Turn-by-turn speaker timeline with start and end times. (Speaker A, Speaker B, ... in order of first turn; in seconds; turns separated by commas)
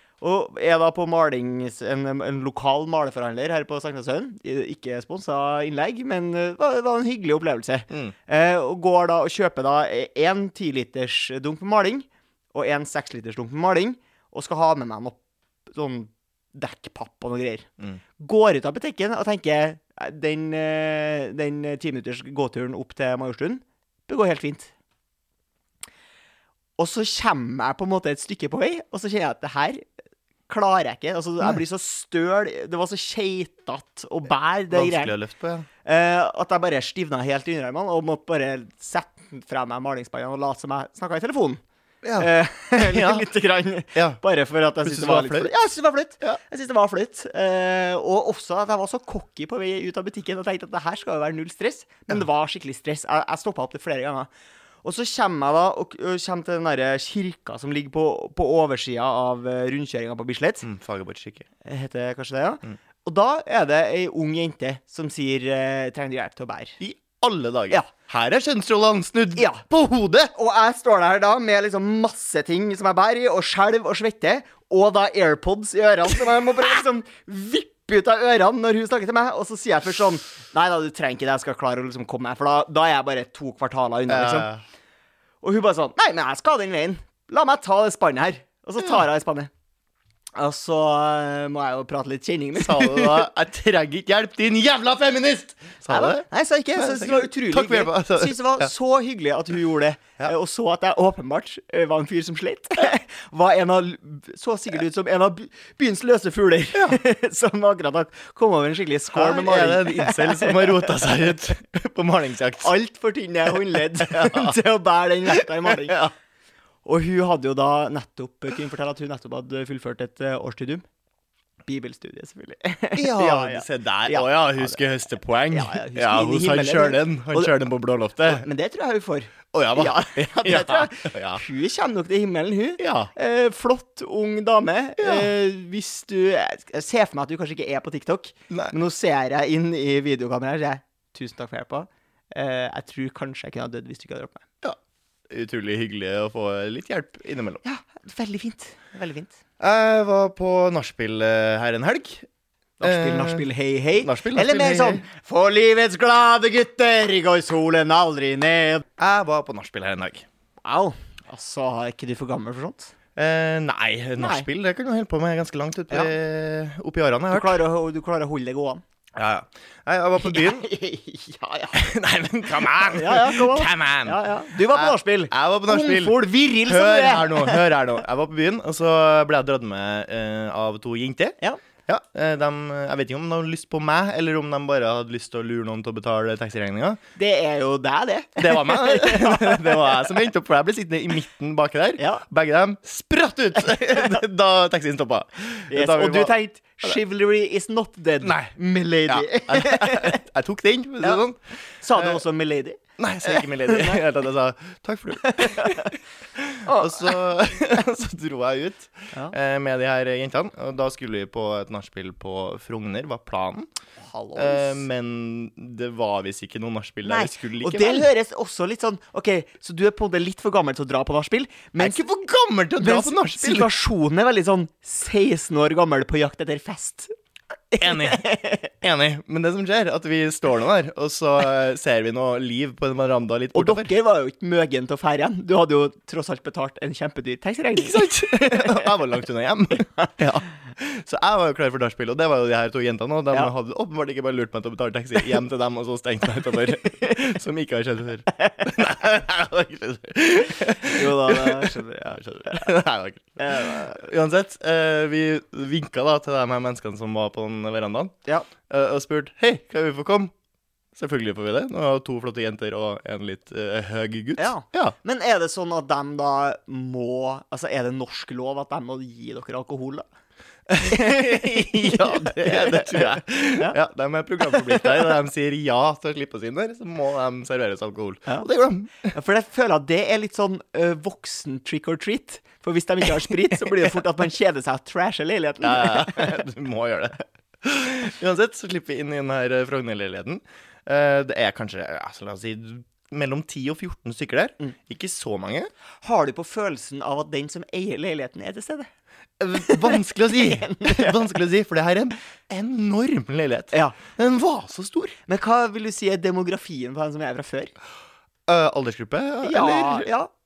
Speaker A: 0.2-17.7, Speaker A: 18.2-24.7, Speaker A: 26.8-29.8, Speaker A: 30.5-35.2, Speaker B: 34.7-35.7, Speaker A: 35.8-41.6, Speaker B: 42.0-43.2, Speaker A: 42.2-54.3, Speaker B: 43.9-44.2, Speaker B: 44.8-45.5, Speaker A: 54.8-60.7, Speaker B: 60.6-61.5, Speaker A: 61.6-66.8, Speaker B: 66.8-70.3, Speaker A: 69.4-69.6, Speaker A: 70.3-84.5, Speaker B: 84.1-84.6, Speaker A: 85.4-89.5, Speaker A: 90.3-93.3, Speaker B: 92.5-98.7, Speaker A: 95.9-111.0, Speaker B: 106.7-107.0, Speaker B: 109.1-112.7, Speaker A: 112.6-116.1, Speaker B: 113.7-114.6, Speaker B: 115.3-116.0, Speaker A: 116.8-120.8, Speaker A: 121.7-124.8, Speaker B: 122.9-128.5, Speaker A: 125.5-127.5, Speaker A: 128.2-144.4, Speaker B: 129.5-131.4, Speaker B: 132.8-133.1, Speaker B: 135.0-135.3, Speaker B: 138.5-138.8, Speaker B: 145.3-147.6, Speaker A: 147.6-149.4, Speaker B: 149.6-152.3, Speaker A: 152.8-158.8, Speaker B: 152.8-155.0, Speaker B: 159.0-160.2, Speaker A: 160.6-162.9, Speaker B: 163.2-167.6, Speaker A: 164.2-164.5, Speaker A: 165.9-166.1, Speaker A: 167.3-168.8, Speaker B: 169.1-170.7, Speaker A: 170.2-171.9, Speaker B: 171.7-187.0, Speaker A: 172.7-177.7, Speaker A: 187.2-190.0, Speaker B: 188.4-196.3, Speaker A: 192.0-192.2, Speaker A: 195.7-200.2, Speaker B: 198.2-198.5, Speaker B: 199.1-201.4, Speaker A: 201.8-204.0, Speaker B: 201.9-202.2, Speaker B: 203.0-213.7, Speaker A: 205.2-205.9, Speaker A: 206.6-207.2, Speaker A: 214.0-214.9, Speaker B: 214.4-218.1, Speaker A: 217.0-222.0, Speaker B: 221.8-223.7, Speaker A: 222.8-227.1, Speaker A: 227.7-228.7, Speaker B: 227.8-228.2, Speaker B: 228.8-233.9, Speaker A: 233.5-239.0, Speaker B: 237.8-260.3, Speaker A: 239.8-240.1, Speaker A: 248.3-248.7, Speaker A: 250.8-252.7, Speaker A: 253.4-254.1, Speaker B: 260.9-264.9, Speaker A: 264.4-270.0, Speaker B: 270.7-279.1, Speaker A: 270.8-273.8, Speaker A: 274.4-274.9, Speaker A: 279.0-286.5, Speaker B: 283.7-284.0, Speaker B: 285.6-295.7, Speaker A: 296.0-298.9, Speaker B: 299.4-305.2, Speaker A: 299.5-301.4, Speaker A: 303.7-304.0, Speaker A: 305.3-307.8, Speaker B: 308.5-310.1, Speaker A: 309.4-310.3